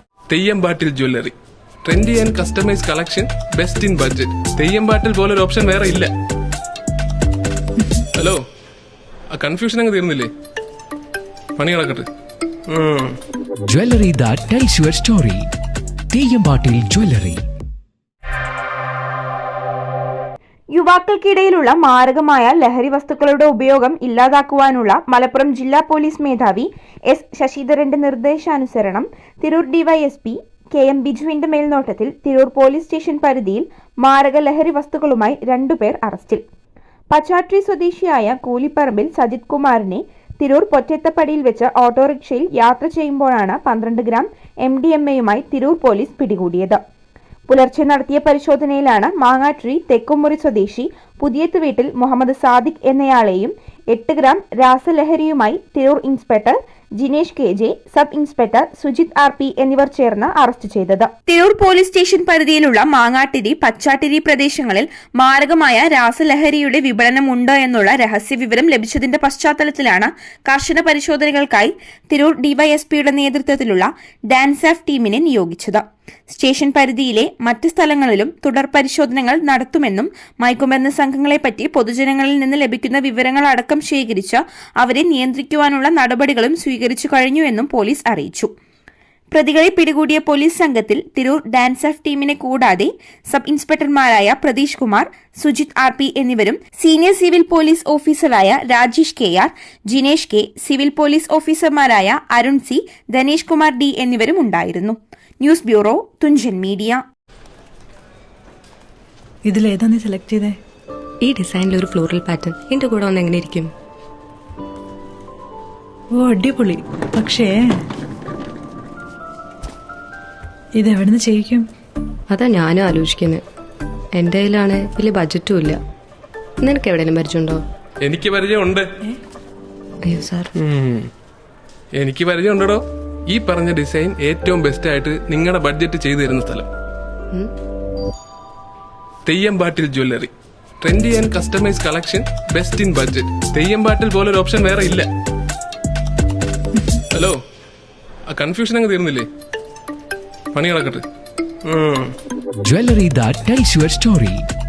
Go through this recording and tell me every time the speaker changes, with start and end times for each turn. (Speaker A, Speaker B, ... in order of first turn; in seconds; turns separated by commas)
Speaker A: 0.3-1.3, Speaker A: 1.9-6.1, Speaker A: 9.3-10.3, Speaker A: 11.6-12.1, Speaker A: 12.7-13.2, Speaker B: 13.7-15.5, Speaker B: 16.1-17.4, Speaker C: 20.7-36.4, Speaker C: 37.1-46.8, Speaker C: 47.5-88.5, Speaker C: 89.3-107.0, Speaker D: 109.5-110.6, Speaker E: 111.2-113.7, Speaker D: 116.1-117.8, Speaker D: 120.8-121.7, Speaker E: 122.3-123.4, Speaker E: 124.2-125.8, Speaker E: 126.7-127.6, Speaker A: 128.0-128.8, Speaker E: 130.1-130.4, Speaker A: 130.6-131.1, Speaker A: 132.0-136.7, Speaker A: 139.3-140.3, Speaker A: 140.8-145.1, Speaker A: 148.3-149.2, Speaker A: 150.5-151.0, Speaker A: 151.7-152.1, Speaker B: 152.6-154.4